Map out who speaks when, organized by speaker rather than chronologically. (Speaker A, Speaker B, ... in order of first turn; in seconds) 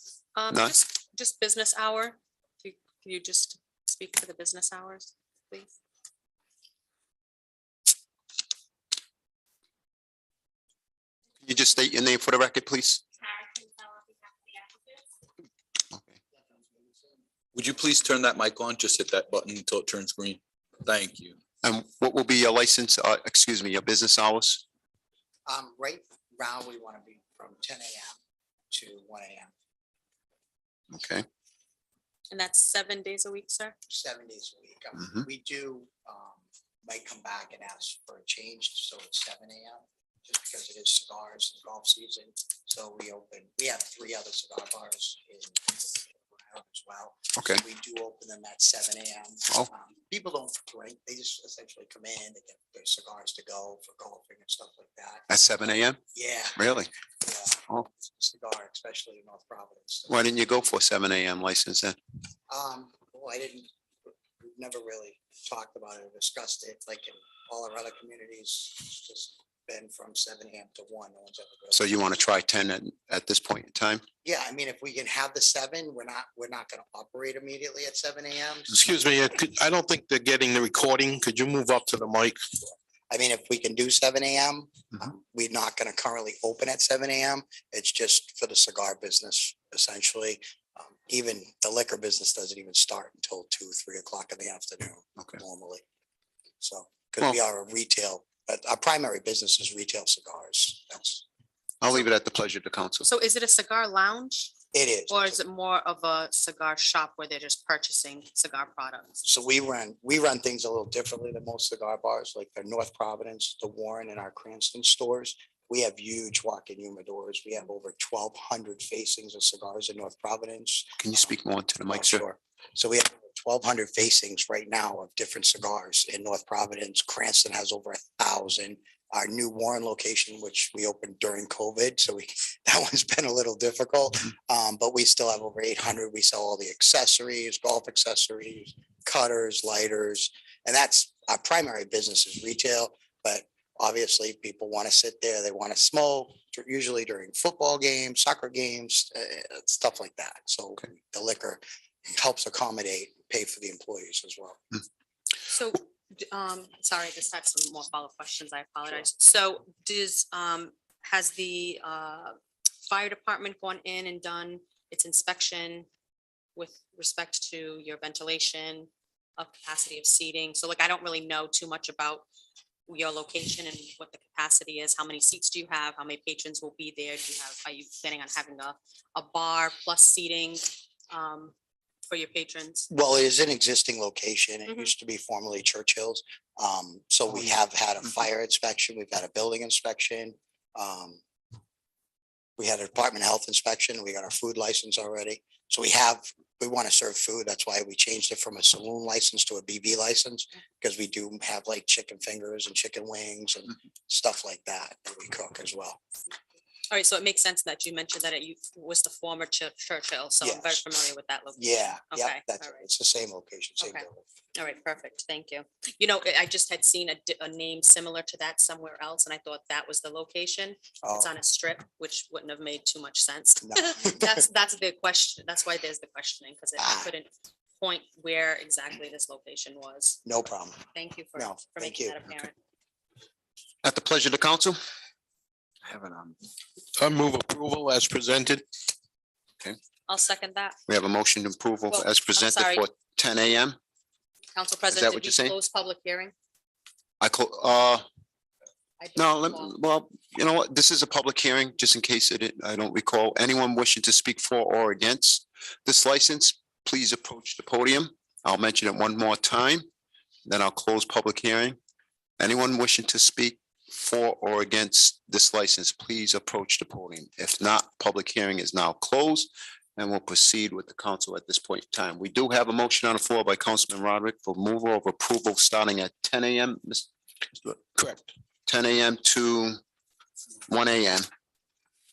Speaker A: 0.4-5.8, 32.3-33.8, 103.0-104.5, 105.1-109.2, 155.5-165.9, 166.6-172.2, 172.9-181.5, 182.1-182.9, 206.9-212.8, 213.8-230.2, 230.9-232.5, 240.1-240.8, 241.9-242.9, 244.5-246.3, 249.0-249.8
Speaker B: 11.4-13.0, 21.6-24.6, 30.9-31.2, 55.3-56.0, 56.6-56.9, 60.1-62.0, 71.7-74.0, 101.8-103.1, 121.0-122.2, 233.8-234.8, 240.9-243.8, 244.9-245.6, 247.2-248.1, 249.2-259.9, 260.5-261.8, 262.4-277.1, 278.7-279.8, 280.7-281.3
Speaker C: 17.5-21.4
Speaker D: 25.5-28.2, 28.7-29.5, 33.9-55.3, 56.0-56.6, 57.2-60.1, 62.5-63.7, 64.4-71.8, 74.2-78.8, 82.7-95.8, 96.6-101.2, 104.7-105.4, 109.2-121.0, 121.9-154.8, 182.9-191.2, 192.6-206.0, 210.4-210.8, 211.6-214.2, 221.0-221.3, 223.7-224.4, 226.8-227.1, 230.2-230.8, 231.3-232.2, 235.9-236.2
Speaker E: 78.7-82.4, 237.0-238.7, 277.6-278.3